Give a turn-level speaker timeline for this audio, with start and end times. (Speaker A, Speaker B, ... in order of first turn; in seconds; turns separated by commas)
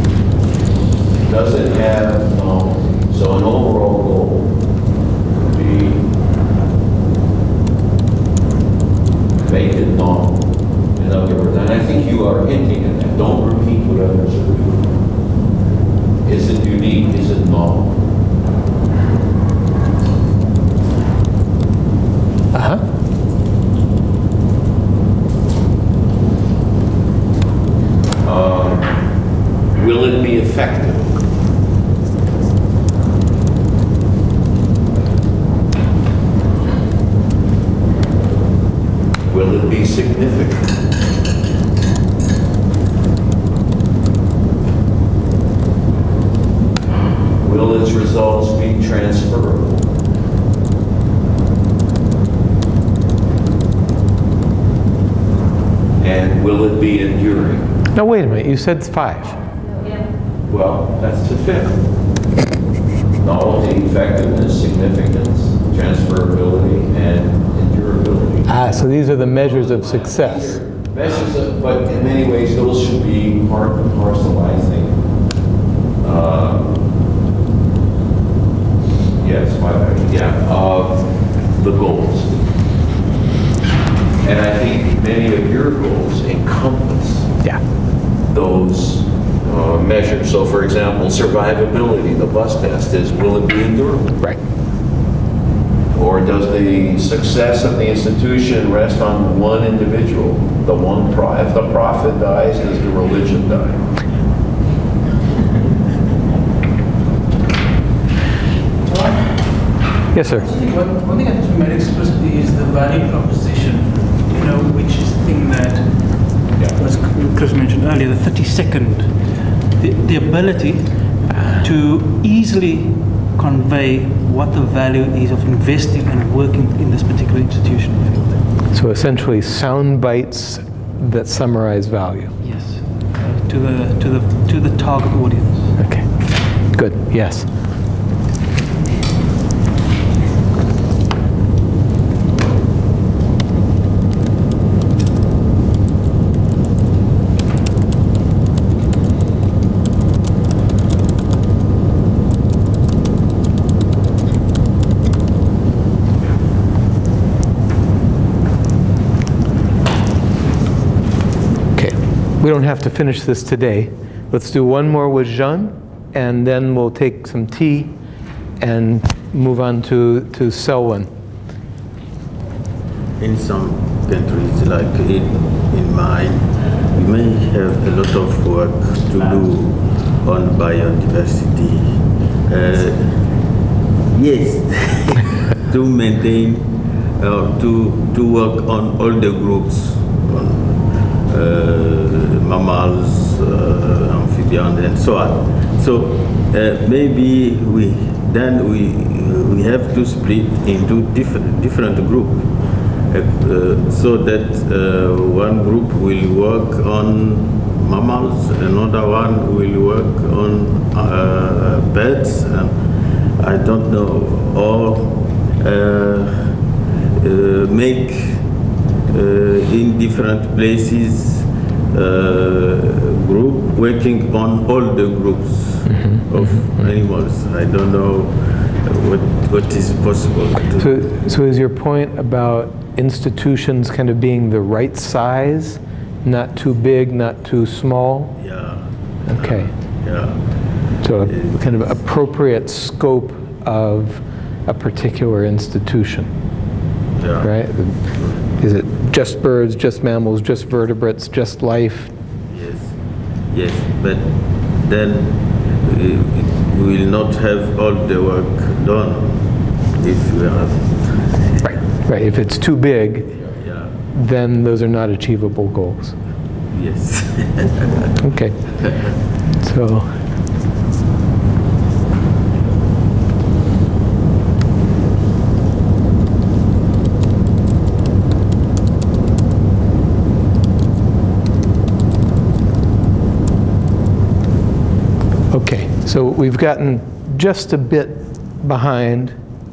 Speaker A: 1.2-4.6, Speaker A: 5.3-6.1, Speaker A: 9.4-14.9, Speaker A: 16.2-18.0, Speaker B: 22.5-22.9, Speaker A: 28.2-29.0, Speaker A: 29.7-31.2, Speaker A: 39.3-40.8, Speaker A: 47.4-49.9, Speaker A: 56.0-57.7, Speaker B: 57.9-59.4, Speaker A: 60.5-61.8, Speaker A: 63.2-68.5, Speaker B: 68.5-70.6, Speaker A: 69.4-75.0, Speaker A: 76.0-76.9, Speaker A: 79.2-82.4, Speaker A: 84.2-87.3, Speaker A: 88.3-94.2, Speaker A: 95.9-103.8, Speaker C: 108.9-128.4, Speaker B: 110.1-110.5, Speaker B: 128.7-132.4, Speaker C: 132.4-135.8, Speaker B: 135.8-137.5, Speaker B: 161.8-168.0, Speaker B: 168.6-171.1, Speaker D: 173.2-183.4, Speaker D: 184.1-216.6, Speaker D: 217.2-218.5, Speaker D: 219.1-230.9, Speaker B: 225.9-226.9, Speaker B: 230.8-238.4, Speaker D: 238.4-241.6, Speaker B: 239.3-239.7, Speaker B: 241.0-246.3, Speaker D: 247.2-248.4, Speaker B: 247.4-252.1, Speaker D: 252.5-253.0, Speaker D: 253.5-261.9, Speaker B: 261.6-263.4, Speaker D: 263.5-263.9, Speaker B: 264.1-266.1, Speaker D: 266.7-268.1, Speaker B: 268.2-268.8, Speaker D: 268.8-269.1, Speaker B: 269.5-270.1, Speaker B: 285.5-289.4